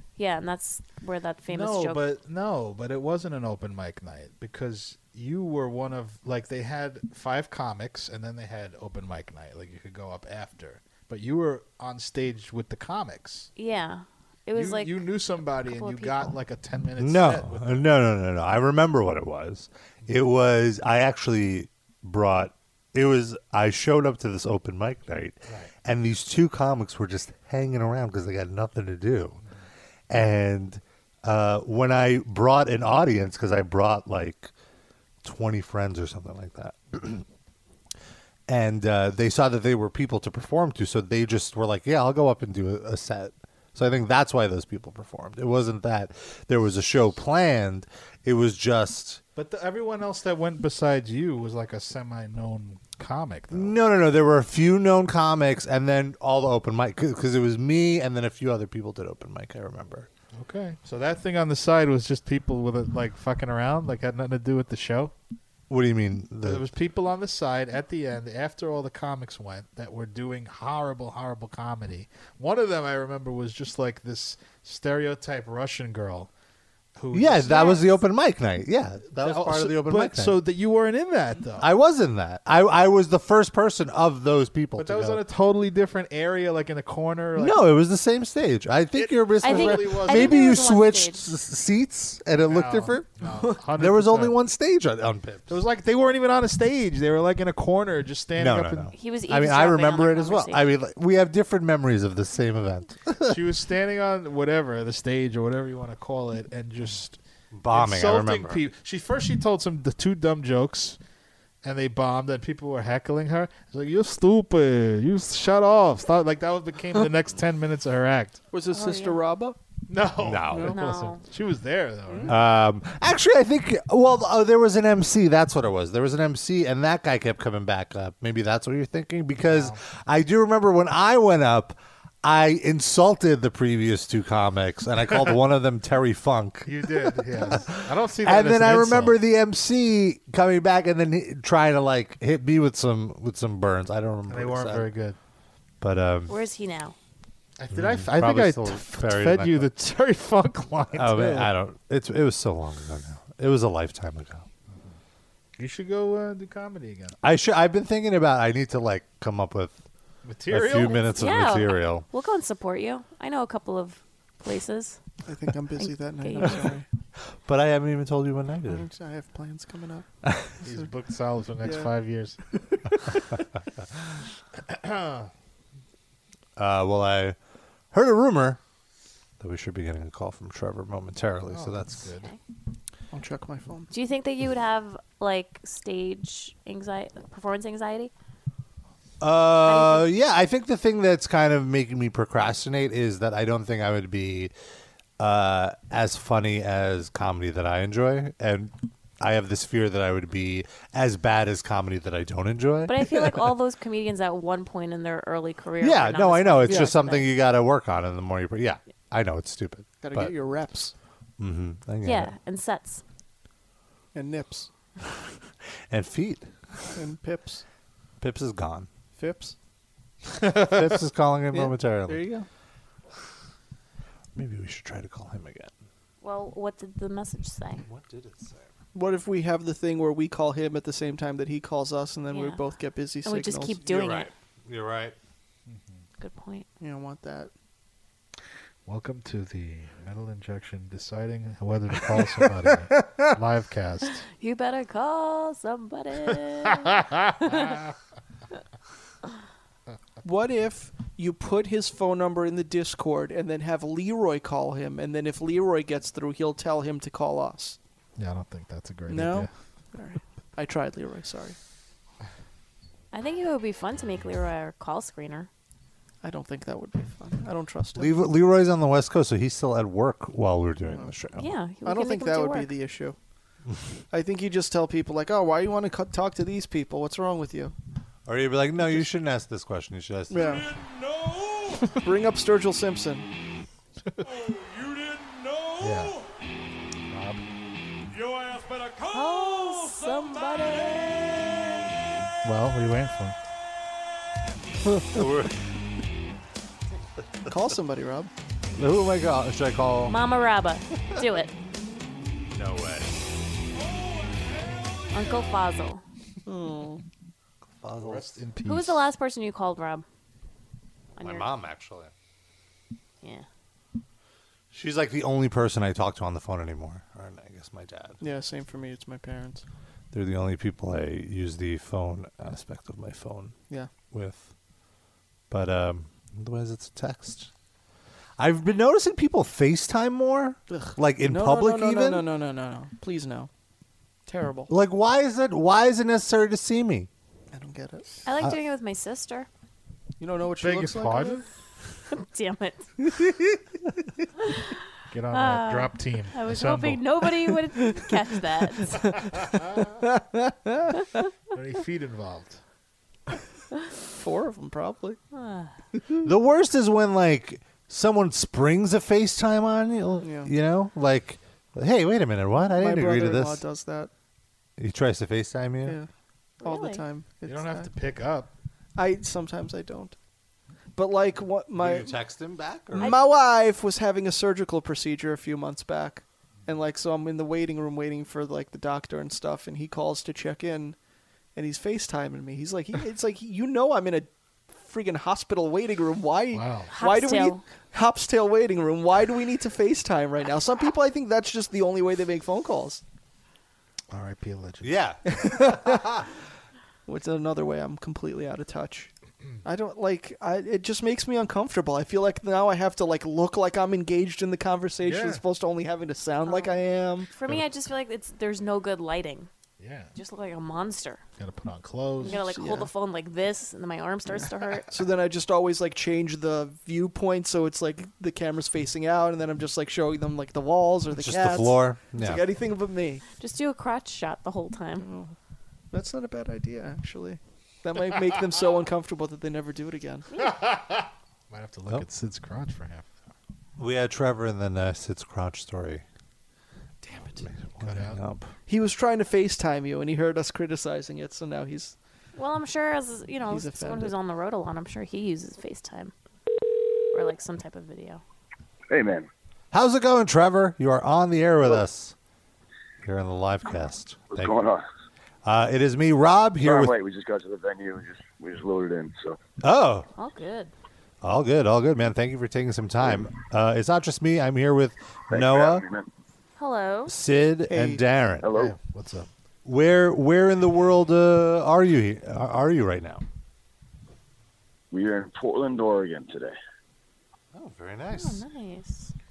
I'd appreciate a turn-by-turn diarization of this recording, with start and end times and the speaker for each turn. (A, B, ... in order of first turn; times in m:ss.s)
0:00.2-0:02.0 A
0:01.5-0:13.5 B
0:13.6-0:16.4 A
0:14.6-0:17.9 B
0:17.0-0:29.4 C
0:30.1-0:34.5 C
0:35.2-0:37.2 C
0:38.5-0:49.2 C
0:49.4-0:53.8 B
0:53.5-1:00.1 C
1:00.3-1:05.1 B
1:05.7-1:06.7 C
1:06.4-1:16.3 B
1:17.0-1:18.0 B
1:17.1-1:20.4 C
1:19.1-1:21.7 B
1:21.6-1:25.2 C
1:24.8-1:27.6 B
1:27.4-1:33.1 C
1:28.9-1:30.6 B
1:29.4-1:31.3 A
1:32.5-1:34.4 B
1:33.7-1:35.6 C
1:35.5-1:38.9 B
1:38.4-1:43.4 C
1:38.9-1:40.7 A
1:43.3-1:47.2 B
1:47.5-1:48.6 C
1:47.7-1:51.0 B
1:51.6-1:58.4 B
1:58.5-1:59.6 D
1:58.7-1:59.2 A
1:59.9-2:02.4 B
2:00.2-2:00.8 C
2:00.6-2:01.2 A
2:02.1-2:02.3 D
2:02.3-2:24.9 C
2:09.4-2:09.8 B
2:16.6-2:19.2 B
2:24.3-2:25.2 B
2:25.8-2:26.4 C
2:26.3-2:27.0 A
2:27.6-2:31.5 B
2:27.7-2:29.7 C
2:30.9-2:34.5 C
2:35.6-2:37.2 B
2:37.2-2:39.8 C
2:40.2-2:41.1 B
2:40.5-2:42.1 C
2:40.9-2:45.0 A
2:45.3-2:46.9 D
2:45.8-2:46.7 A
2:47.2-2:48.9 C
2:48.7-2:50.1 D
2:50.6-2:52.4 B
2:51.6-2:51.9 D
2:52.5-2:53.2 D
2:54.6-2:55.3 B
2:56.6-2:57.4 C
2:57.9-2:58.6 C
2:59.4-3:02.1 C
3:01.5-3:02.3 B
3:03.1-3:03.9 D
3:03.9-3:08.1 A
3:09.2-3:14.5 C
3:09.6-3:10.1 A
3:15.2-3:23.5 C
3:22.9-3:27.3 A
3:25.8-3:30.4 C
3:26.7-3:26.9 D
3:30.0-3:30.9 D
3:31.4-3:32.3 C
3:32.0-3:33.0 A
3:34.2-3:34.7 D
3:35.9-3:36.8 C
3:37.0-3:37.6 D
3:38.2-3:38.9 C
3:39.2-3:39.6 D
3:40.4-3:42.2 C
3:41.5-3:42.5 D
3:44.4-3:45.7 C
3:46.2-3:47.8 A
3:47.8-3:48.7 C
3:48.9-3:53.8 D
3:52.3-3:52.6 A
3:53.2-3:54.3 A
3:53.8-3:55.2 C
3:55.7-3:56.0 B
3:56.2-3:56.7 A
3:56.8-3:57.5 D
3:58.9-4:04.2 B
4:04.4-4:07.8 A
4:10.2-4:17.8 D
4:18.2-4:19.5 B
4:19.1-4:21.6 D
4:23.1-4:25.5 A
4:26.2-4:28.1 D
4:28.0-4:31.5 C
4:31.4-4:32.7 A
4:31.8-4:33.2 D
4:34.1-4:37.7 D
4:38.3-4:40.6 C
4:40.3-4:40.8 D
4:41.7-4:43.3 D
4:45.8-4:46.2 B
4:47.1-4:47.4 B
4:49.0-4:51.8 A
4:52.4-4:53.4 B
4:55.1-4:55.6 C
4:57.5-4:58.3 D
4:58.7-5:00.2 C
5:00.1-5:01.5 A
5:02.5-5:03.2 C
5:05.1-5:06.0 A
5:06.5-5:07.0 D
5:07.8-5:08.4 C
5:08.0-5:09.1 B
5:08.6-5:10.1 A
5:11.2-5:11.5 A
5:11.2-5:12.1 C
5:14.7-5:18.2 C
5:18.2-5:19.6 D
5:20.1-5:23.6 C
5:24.1-5:24.5 C
5:25.5-5:27.5 C
5:28.4-5:32.3 C
5:30.7-5:33.5 D
5:34.3-5:34.7 D
5:34.7-5:37.1 C
5:37.5-5:38.1 D
5:38.2-5:39.5 A
5:40.2-5:41.4 D
5:40.6-5:41.4 B
5:42.1-5:42.9 A
5:45.1-5:47.0 B
5:45.3-5:49.0 A
5:50.0-5:51.0 D
5:51.5-5:52.6 B
5:54.1-5:55.2 D
5:55.3-5:55.8 A
5:56.2-6:03.6 C
6:00.2-6:00.5 D
6:02.8-6:04.1 D
6:04.8-6:06.0 C
6:06.6-6:07.0 A
6:06.6-6:07.9 D
6:07.5-6:08.5 B
6:09.0-6:10.2 D
6:11.0-6:12.1 D
6:11.8-6:13.2 C
6:13.0-6:21.0 D
6:21.6-6:33.0 D
6:26.5-6:26.9 B
6:26.9-6:27.6 A
6:34.1-6:35.0 B
6:34.8-6:36.1 C
6:35.3-6:36.1 D
6:37.1-6:39.1 D
6:39.6-6:47.3 D
6:45.0-6:45.4 B
6:46.5-6:49.5 A
6:49.8-6:50.1 B
6:50.2-6:51.2 A
6:51.4-6:52.4 B
6:52.2-6:52.9 D
6:52.2-6:55.0 A
6:54.3-7:03.2 D
7:01.1-7:02.4 C
7:03.4-7:05.1 A
7:05.0-7:05.3 D
7:05.9-7:10.3 D
7:10.4-7:13.3 B
7:13.8-7:16.0 C
7:17.4-7:18.5 C
7:17.8-7:18.2 B
7:18.7-7:22.0 D
7:22.4-7:26.1 A
7:23.5-7:24.1 D
7:27.1-7:28.2 A
7:28.9-7:29.3 E
7:29.7-7:32.2 C
7:33.0-7:34.6 C
7:34.3-7:34.8 E
7:35.4-7:36.9 C
7:36.6-7:39.4 E
7:39.6-7:40.1 C
7:40.2-7:40.7 A
7:41.2-7:45.8 C
7:45.3-7:46.1 E
7:46.6-7:47.1 A
7:47.1-7:48.5 C
7:47.7-7:48.0 D
7:48.4-7:48.8 E
7:48.5-7:49.3 B
7:49.6-7:53.2 C
7:54.9-7:56.6 E
7:57.5-7:58.4 C
7:58.1-7:59.1 A